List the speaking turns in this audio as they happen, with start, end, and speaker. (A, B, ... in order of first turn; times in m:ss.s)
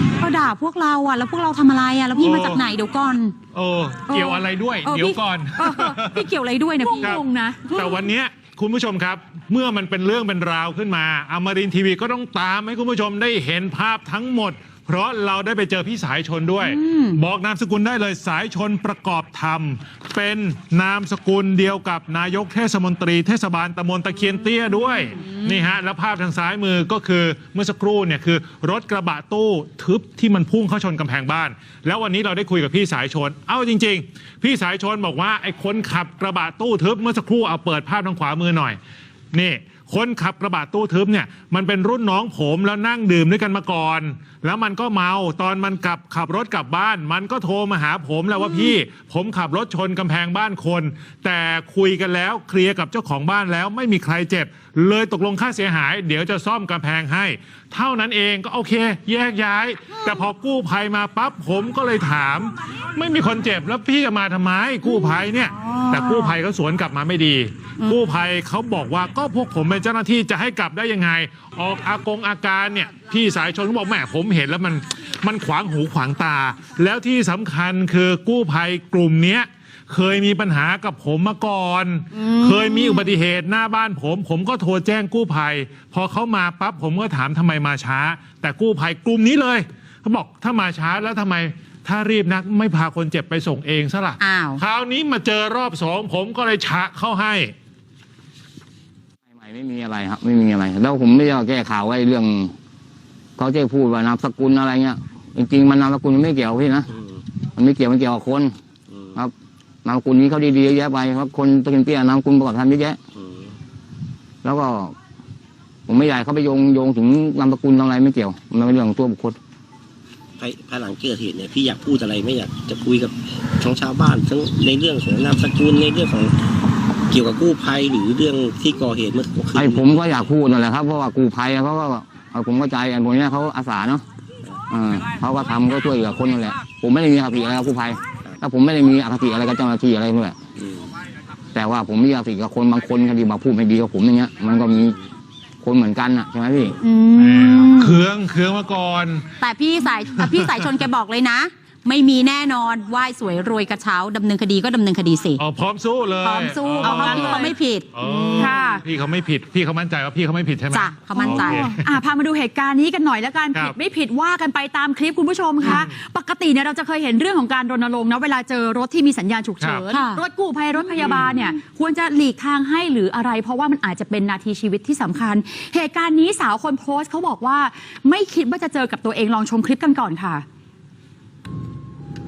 0:00.2-0:03.4 A
0:02.2-0:02.6 B
0:03.5-0:06.2 B
0:04.1-0:04.4 C
0:04.8-0:07.1 A
0:05.6-0:05.9 C
0:06.8-0:08.0 C
0:07.0-0:38.8 B
0:16.7-0:17.2 A
0:39.3-1:37.5 B
1:05.6-1:06.3 A
1:22.2-1:23.1 A
1:34.2-1:34.6 A
1:39.3-1:42.6 D
1:43.4-1:46.9 D
1:46.9-1:47.2 E
1:47.6-1:48.6 D
1:48.9-1:49.2 E
1:49.8-1:53.0 D
1:53.2-1:53.5 E
1:54.4-1:55.0 D
1:55.9-1:59.4 D
2:00.4-2:06.4 E
2:07.1-2:10.0 E
2:09.6-2:14.0 D
2:14.7-2:20.4 D
2:20.6-2:20.9 E
2:21.5-2:25.0 D
2:25.6-2:26.8 D
2:26.8-2:27.7 C
2:26.9-2:27.9 A
2:27.2-2:29.3 B
2:29.4-2:35.4 A
2:30.2-2:30.7 B
2:35.4-2:41.8 B
2:36.2-2:38.5 A
2:36.8-2:38.8 C
2:40.7-2:41.7 A
2:41.2-3:00.4 C
2:45.6-2:46.0 B
2:49.6-2:49.9 B
2:49.9-2:50.2 A
2:51.0-2:51.4 B
2:51.0-2:51.3 A